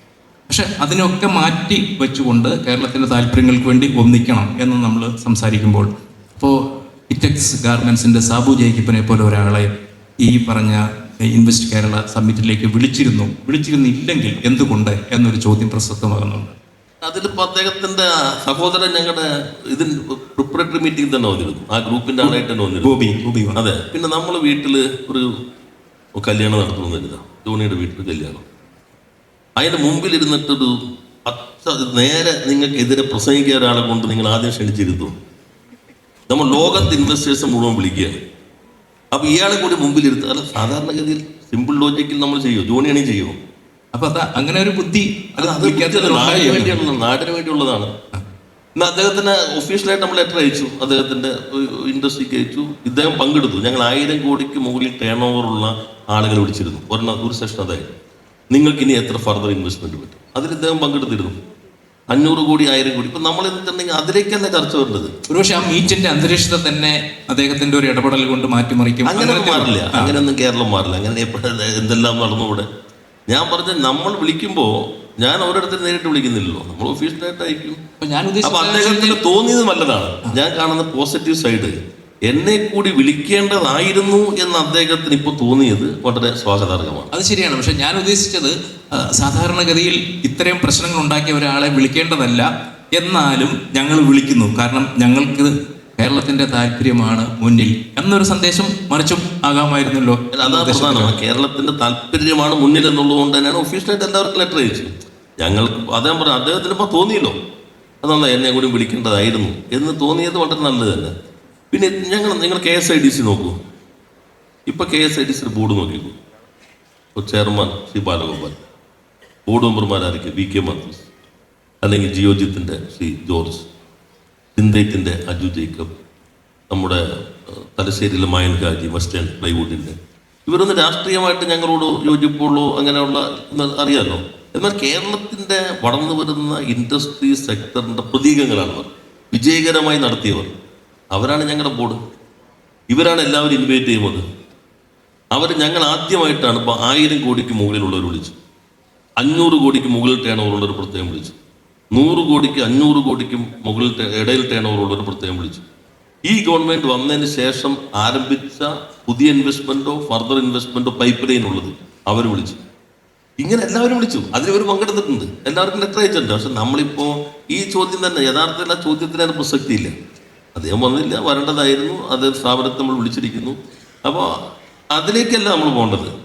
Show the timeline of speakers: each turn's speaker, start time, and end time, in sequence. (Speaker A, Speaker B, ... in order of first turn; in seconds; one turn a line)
Speaker A: 0.5-9.7
Speaker A: 10.2-16.6
Speaker B: 17.0-22.9
Speaker A: 22.2-23.6
Speaker B: 23.5-25.3
Speaker B: 26.2-28.4
Speaker B: 29.6-35.1
Speaker B: 36.3-38.1
Speaker B: 39.1-43.4
Speaker A: 43.9-46.8
Speaker B: 45.4-47.9
Speaker B: 48.8-57.9
Speaker B: 58.5-61.4
Speaker B: 62.1-65.1
Speaker A: 65.3-70.2
Speaker B: 69.0-72.7
Speaker B: 73.3-77.8
Speaker A: 78.0-79.2
Speaker B: 78.4-81.8
Speaker B: 82.3-87.1
Speaker A: 87.1-101.1
Speaker B: 100.3-107.3
Speaker B: 108.0-111.1
Speaker B: 111.7-113.6
Speaker B: 114.7-116.2
Speaker B: 117.1-118.6
Speaker B: 119.5-121.0
Speaker B: 121.8-123.7
Speaker B: 124.5-125.9
Speaker B: 126.7-129.9
Speaker B: 130.4-140.5
Speaker B: 141.1-142.0
Speaker B: 142.9-144.2
Speaker B: 145.3-148.3
Speaker B: 149.2-151.3
Speaker B: 151.9-155.6
Speaker B: 156.3-162.6
Speaker B: 163.4-169.9
Speaker B: 170.5-174.3
Speaker B: 174.9-176.1